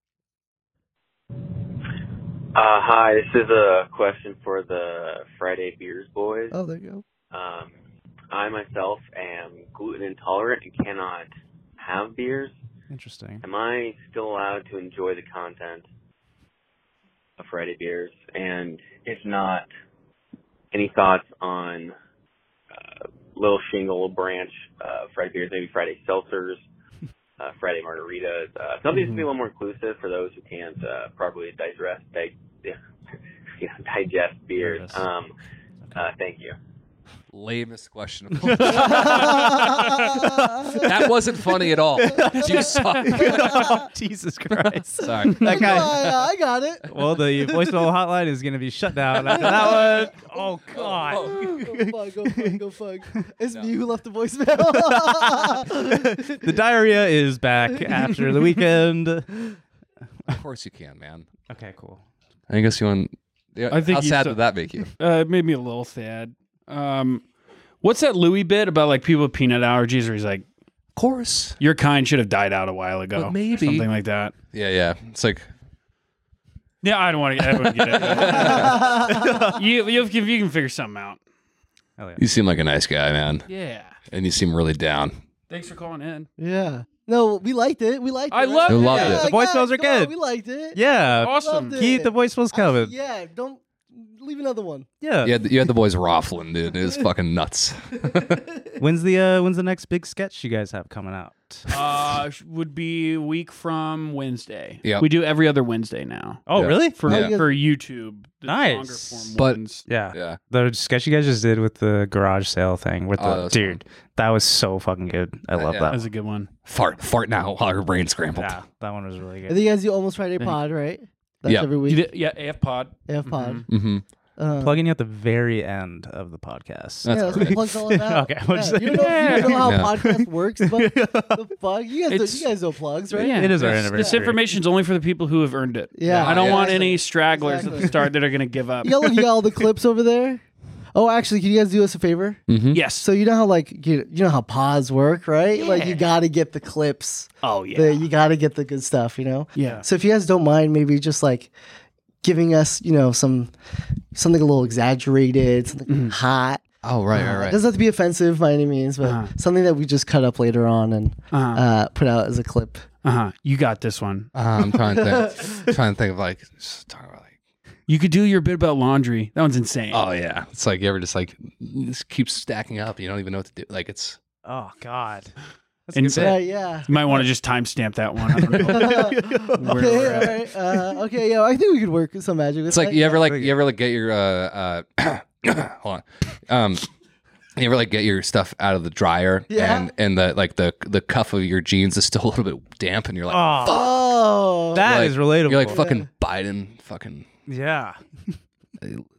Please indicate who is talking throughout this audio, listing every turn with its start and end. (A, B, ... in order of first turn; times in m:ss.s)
0:02.5-0:06.5 A
0:06.5-0:07.0 B
0:07.3-0:07.7 A
0:08.3-0:12.5 A
0:12.9-0:13.4 C
0:13.4-0:15.8 A
0:17.4-0:19.6 A
0:20.7-0:21.9 A
0:22.7-0:26.6 A
0:27.4-0:32.8 A
0:28.9-0:29.2 D
0:33.6-0:35.3 A
0:34.6-0:35.0 D
0:35.9-0:36.5 A
0:37.3-0:39.6 E
0:38.4-0:41.2 C
0:38.8-0:40.8 B
0:40.8-0:43.7 E
0:41.7-0:46.0 C
0:44.5-0:46.3 E
0:45.0-0:46.8 B
0:46.9-0:52.6 C
0:49.3-0:50.1 B
0:50.7-0:51.6 E
0:51.2-0:56.4 B
0:53.5-0:53.7 E
0:54.7-0:59.4 C
1:00.3-1:01.3 E
1:01.5-1:02.0 C
1:02.5-1:04.9 E
1:03.7-1:04.4 D
1:05.0-1:07.2 D
1:07.8-1:10.4 D
1:11.0-1:11.6 E
1:11.6-1:14.3 D
1:13.2-1:13.9 E
1:14.5-1:15.4 E
1:16.8-1:21.2 D
1:17.6-1:19.0 E
1:18.2-1:19.5 B
1:22.2-1:23.4 E
1:23.5-1:24.0 D
1:24.1-1:25.1 E
1:25.5-1:26.3 D
1:26.4-1:34.9 B
1:28.3-1:29.3 D
1:28.7-1:29.3 E
1:29.0-1:30.1 C
1:30.7-1:32.9 C
1:31.2-1:31.8 D
1:35.0-1:35.4 C
1:35.2-1:38.4 E
1:38.8-1:41.6 C
1:41.7-1:49.8 D
1:46.5-1:47.0 C
1:46.5-1:47.3 E
1:47.1-1:47.5 B
1:48.4-1:49.3 C
1:49.9-1:56.0 C
1:50.1-1:50.4 E
1:53.2-1:53.8 E
1:55.5-1:56.0 E
1:55.9-1:56.5 D
1:56.6-1:58.6 E
1:58.4-1:59.6 C
1:59.5-2:02.0 B
2:01.8-2:03.6 D
2:03.1-2:03.7 B
2:03.7-2:04.0 E
2:04.4-2:04.8 B
2:04.6-2:11.4 C
2:07.0-2:07.6 E
2:07.1-2:14.2 B
2:09.0-2:09.6 D
2:09.6-2:09.9 E
2:12.1-2:12.5 D
2:13.1-2:19.3 D
2:13.2-2:14.4 C
2:15.9-2:18.0 B
2:16.1-2:16.7 E
2:18.8-2:20.4 B
2:20.9-2:22.4 B
2:22.5-2:22.8 E
2:22.7-2:23.1 D
2:23.0-2:31.5 B
2:25.5-2:26.1 D
2:27.4-2:28.1 D
2:29.6-2:29.8 D
2:32.2-2:33.5 B
2:34.1-2:36.6 B
2:35.9-2:36.2 D
2:36.8-2:37.6 E
2:37.1-2:42.8 B
2:39.0-2:39.3 D
2:41.3-2:41.6 D
2:43.0-2:44.3 D
2:44.3-2:47.3 E
2:44.8-2:45.7 B
2:47.9-2:50.0 D
2:49.9-2:54.2 E
2:54.4-2:55.3 C
2:55.9-2:56.4 C
2:55.9-2:59.0 D
2:56.2-2:57.2 B
2:58.5-3:01.0 C
2:58.7-3:03.2 B
2:59.6-3:00.3 D
3:02.7-3:06.8 E
3:03.3-3:03.5 C
3:07.6-3:13.9 E
3:09.5-3:09.9 B
3:13.3-3:14.1 C
3:13.6-3:14.9 B
3:14.7-3:15.8 C
3:14.7-3:17.2 E
3:15.7-3:16.1 B
3:17.5-3:18.4 C